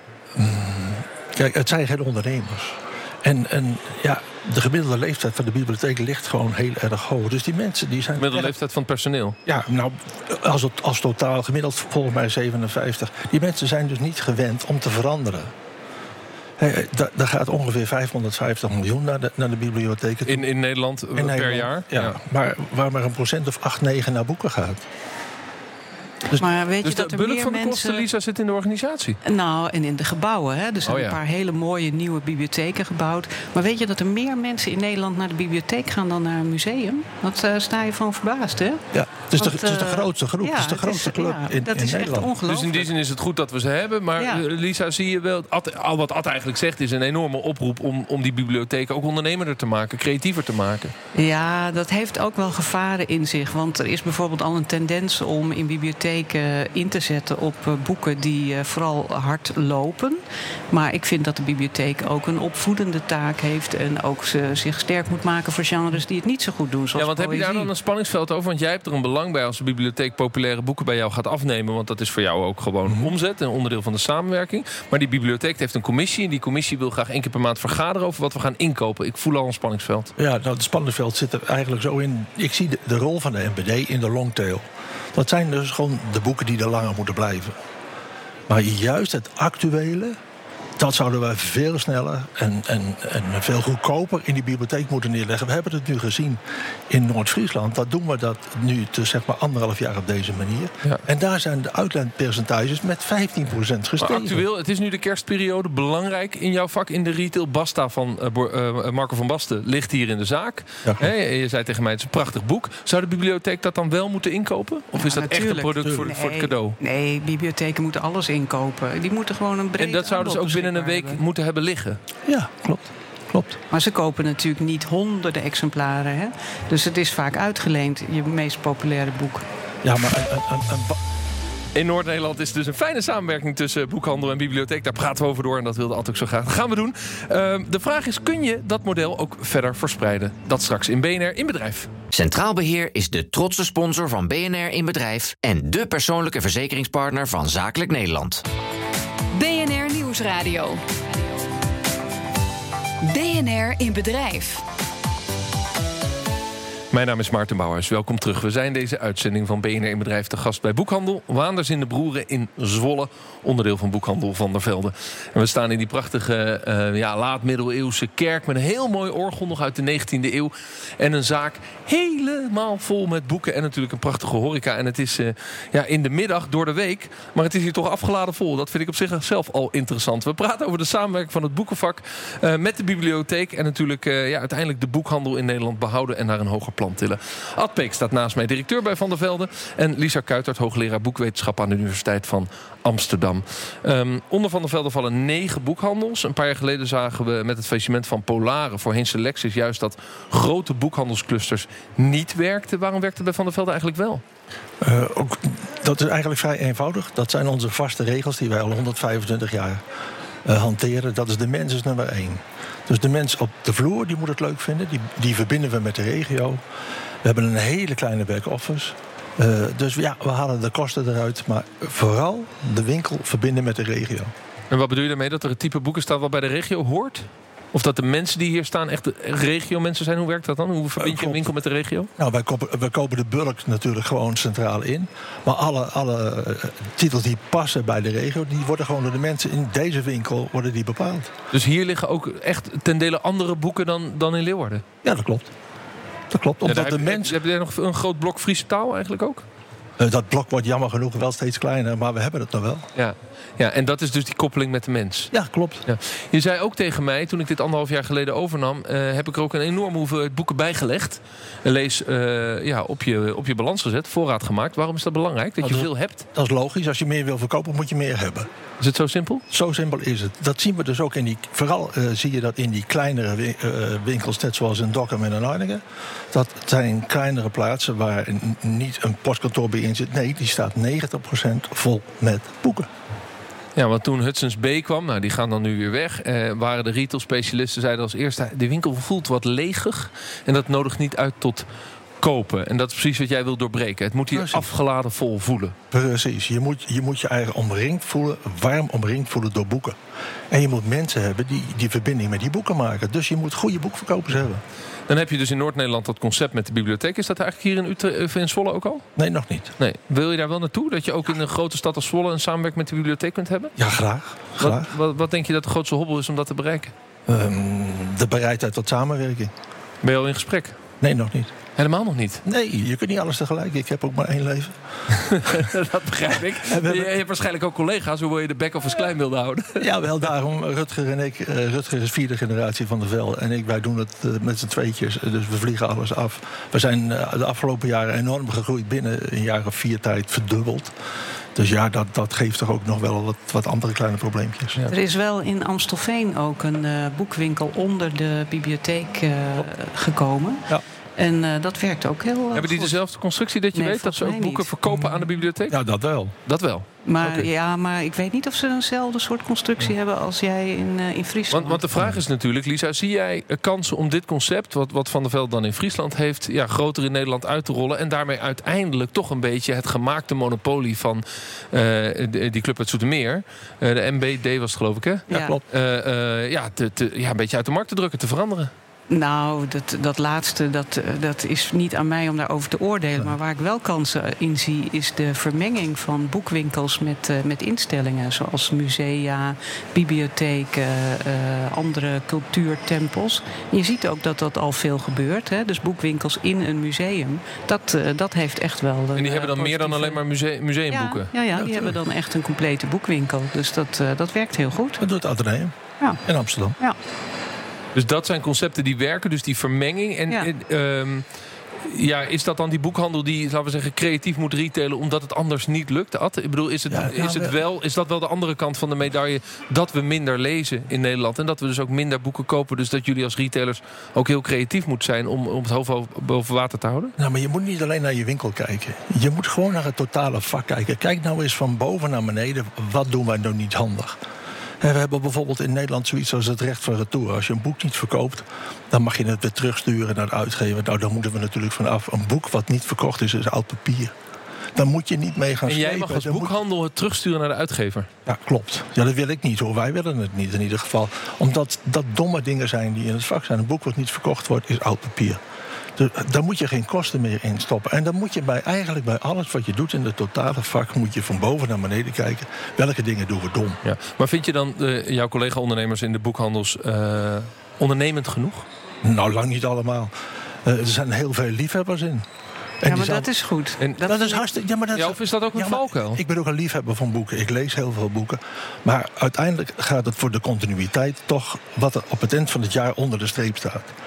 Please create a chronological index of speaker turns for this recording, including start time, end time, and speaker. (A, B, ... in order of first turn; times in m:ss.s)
0:00.4-0:08.5 A
0:08.2-0:09.4 B
0:09.5-0:15.5 A
0:16.6-0:20.5 A
0:20.2-0:22.1 B
0:21.1-0:24.8 A
0:26.4-0:28.0 C
0:26.8-0:29.2 B
0:29.2-0:38.8 C
0:30.9-0:31.2 B
0:38.9-0:42.3 A
0:39.4-0:42.9 C
0:42.4-0:50.9 B
0:44.2-0:44.4 C
0:51.1-1:07.7 C
1:07.0-1:20.1 B
1:12.9-1:13.1 A
1:20.2-1:27.6 A
1:28.5-1:30.2 A
1:30.8-1:44.4 A
1:44.0-1:56.8 B
1:50.8-1:51.1 A
1:55.0-2:01.2 C
1:59.8-2:02.0 B
2:02.3-2:03.6 A
2:03.7-2:09.5 C
2:09.8-2:11.0 A
2:11.7-2:21.9 B
2:22.1-2:28.4 D
2:29.3-2:30.8 E
2:33.0-2:34.6 E
2:36.9-3:24.2 B
3:24.8-3:29.8 A
3:30.4-3:36.6 A
3:37.2-3:44.3 A
3:44.7-3:52.1 B
3:51.0-3:51.5 A
3:52.2-4:01.3 A
4:01.5-4:04.8 B
4:05.0-4:05.5 A
4:06.3-4:07.4 A
4:06.6-4:09.5 B
4:10.0-4:12.9 A
4:13.0-4:15.3 B
4:15.3-4:15.9 A
4:15.9-4:26.3 B
4:25.6-4:28.5 A
4:28.8-4:29.4 B
4:29.5-4:42.9 A
4:43.8-4:51.6 B
4:52.2-4:55.8 B
4:54.3-4:54.7 A
4:55.9-5:00.0 A
5:00.5-5:04.6 A
5:05.1-5:09.0 B
5:09.2-5:09.7 A
5:09.8-5:13.7 B
5:13.8-5:14.9 A
5:14.6-5:16.9 B
5:17.3-5:19.5 A
5:20.0-5:20.8 B
5:21.0-5:21.5 A
5:21.8-5:22.4 B
5:22.4-5:25.6 A
5:25.1-5:30.0 B
5:26.3-5:27.2 A
5:29.8-5:40.9 A
5:41.5-5:44.8 A
5:44.9-5:53.0 C
5:52.5-5:55.8 B
5:53.7-5:54.7 C
5:54.9-5:56.4 A
5:56.5-5:57.4 B
5:57.0-6:01.8 C
6:01.5-6:18.7 B
6:15.3-6:15.6 C
6:15.3-6:15.6 A
6:19.1-6:40.2 C
6:39.1-6:41.3 B
6:40.9-6:45.0 C
6:41.5-6:42.0 A
6:45.0-6:46.8 A
6:48.0-6:51.2 B
6:51.8-7:07.1 B
6:56.9-6:57.6 A
7:07.2-7:14.2 A
7:14.8-7:24.1 A
7:24.8-7:26.6 A
7:25.7-7:28.1 B
7:28.2-7:35.4 A
7:36.0-7:43.8 A
7:43.8-7:48.7 B
7:49.0-7:50.1 A
7:50.6-7:52.2 A
7:52.8-7:53.3 A
7:52.8-7:54.4 C
7:53.8-7:54.0 B
7:54.0-8:03.9 A
7:54.9-7:56.2 B